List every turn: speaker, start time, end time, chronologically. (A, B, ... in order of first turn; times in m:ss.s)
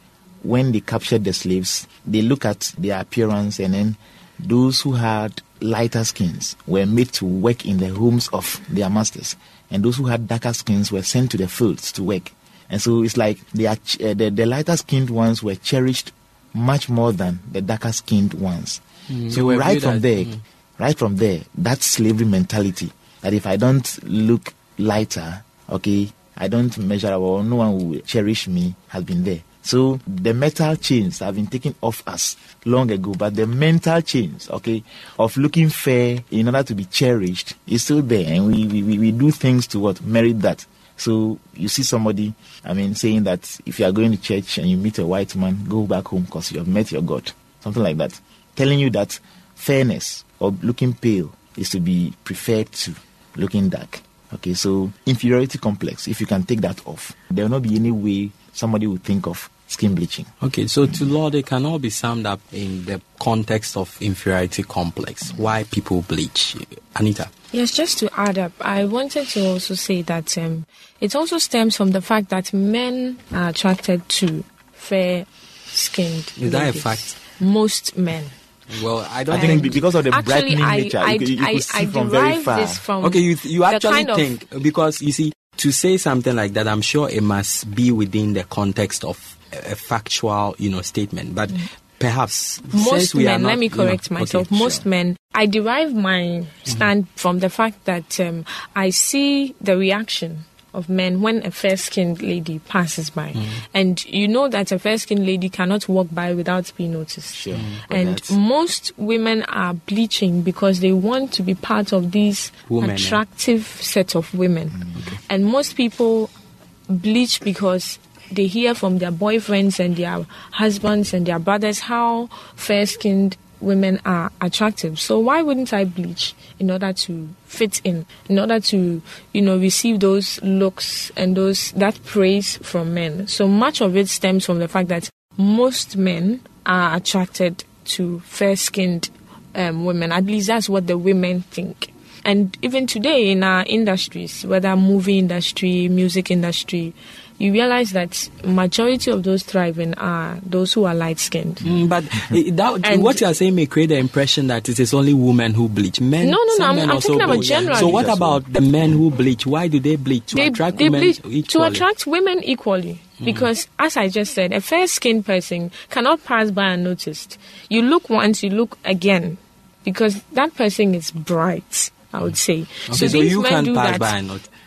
0:00.4-1:00.3 A
0:19.1-0:20.4 B
1:00.4-1:07.3 B
1:07.5-1:18.3 C
1:16.4-1:17.2 B
1:18.7-1:19.8 B
1:19.3-1:22.8 A
1:19.4-1:24.3 C
1:23.0-1:34.8 B
1:32.7-1:56.3 C
1:43.3-1:43.6 B
1:47.3-1:48.4 A
1:47.5-1:47.8 B
1:52.7-1:53.2 B
1:54.7-1:55.2 A
1:56.9-2:31.6 C
2:31.6-2:41.8 B
2:32.8-2:33.2 C
2:36.2-2:38.1 C
2:37.2-2:38.4 A
2:40.3-2:54.1 C
2:43.2-2:43.5 B
2:52.9-2:54.5 B